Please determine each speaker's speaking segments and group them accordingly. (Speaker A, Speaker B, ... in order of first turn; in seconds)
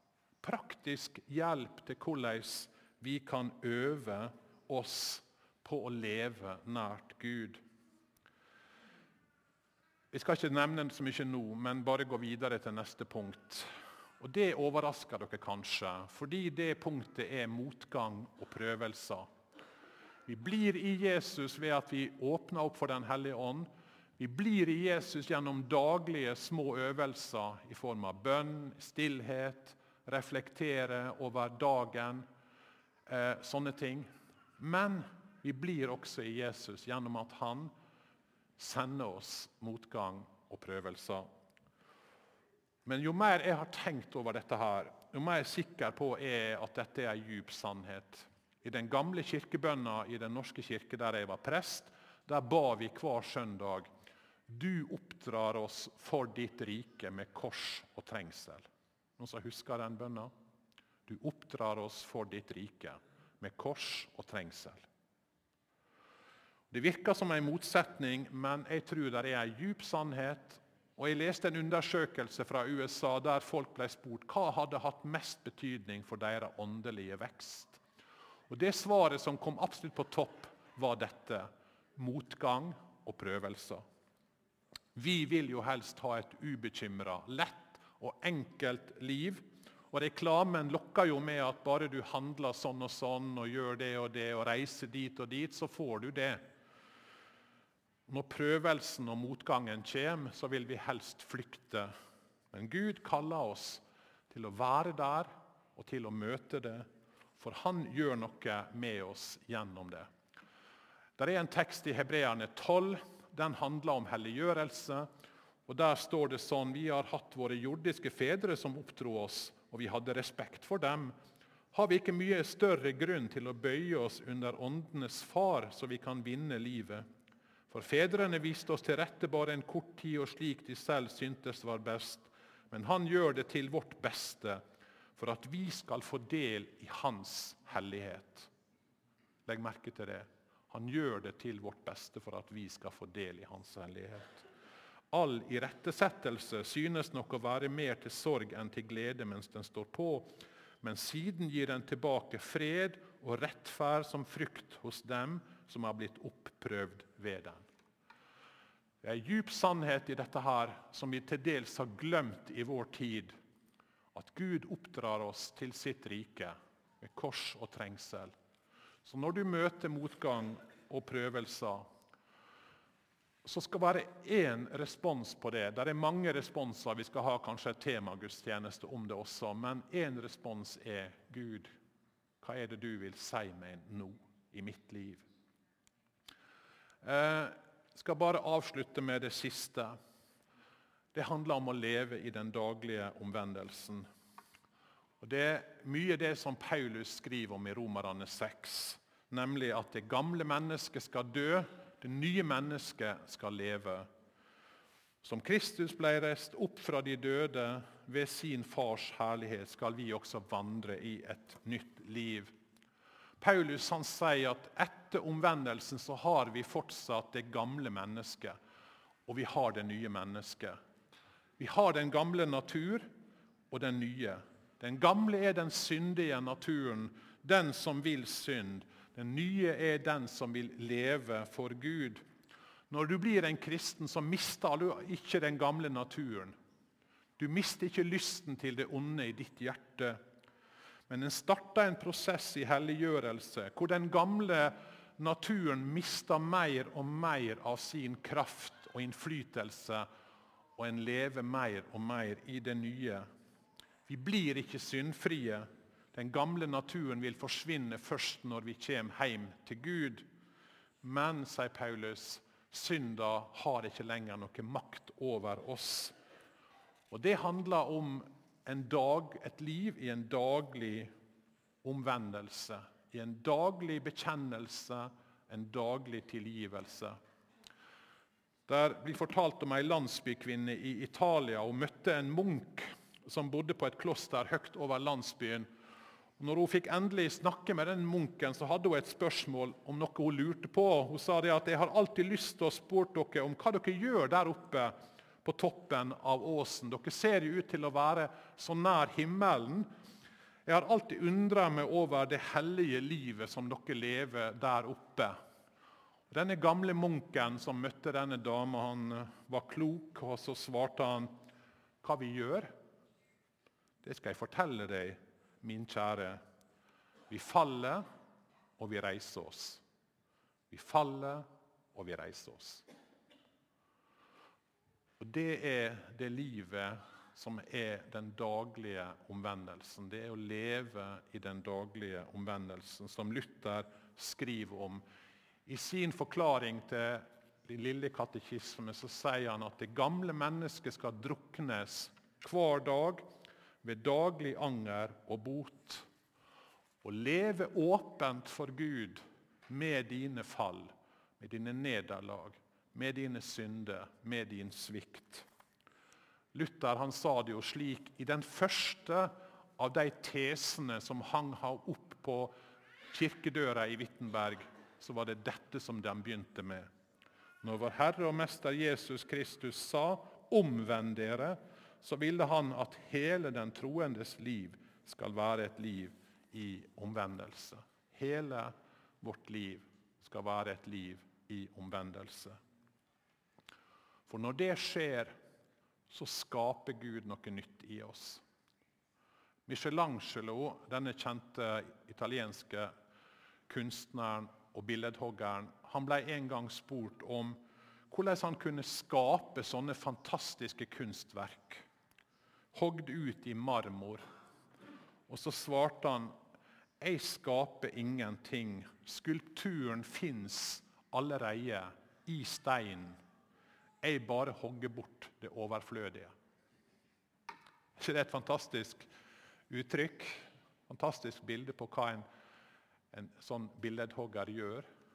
Speaker A: 0.4-7.6, 10.1-13.7, 14.2-19.3, 20.3-32.3, 33.1-37.7, 38.6-41.3, 42.9-53.9, 54.5-58.7, 59.2-60.3, 61.1-64.9, 66.7-77.8, 78.5-83.8, 85.0-96.4, 98.1-101.9, 102.5-106.9, 107.4-110.1, 111.2-115.1, 115.7-121.2, 121.7-127.0, 127.7-134.6, 135.2-138.5, 139.5-144.5, 145.1-157.6, 159.0-163.3, 164.1-168.3, 169.0-171.9, 173.4-181.7, 182.4-185.3, 187.0-190.0, 191.1-194.1, 195.2-204.1, 205.2-212.5, 213.4-218.6, 219.3-220.8, 221.6-223.1, 223.7-232.2, 232.9-236.6, 237.4-240.2, 241.1-250.1, 250.8-253.3, 254.1-260.3, 261.0-266.1, 267.1-271.1, 271.8-277.2, 278.7-285.7, 286.4-299.9, 300.7-305.4, 306.3-311.3, 312.0-312.7, 314.0-316.4, 317.3-318.1, 318.8-319.8, 320.7-322.9, 325.2-335.0, 335.7-343.2, 343.8-346.1, 347.0-355.5, 356.5-362.5, 363.1-366.9, 367.6-382.6, 384.3-385.4, 386.1-388.4, 389.7-392.9, 393.7-401.8, 402.7-404.2, 405.3-406.3, 407.0-413.2, 414.0-416.3, 418.0-419.1, 419.7-422.2, 423.1-424.9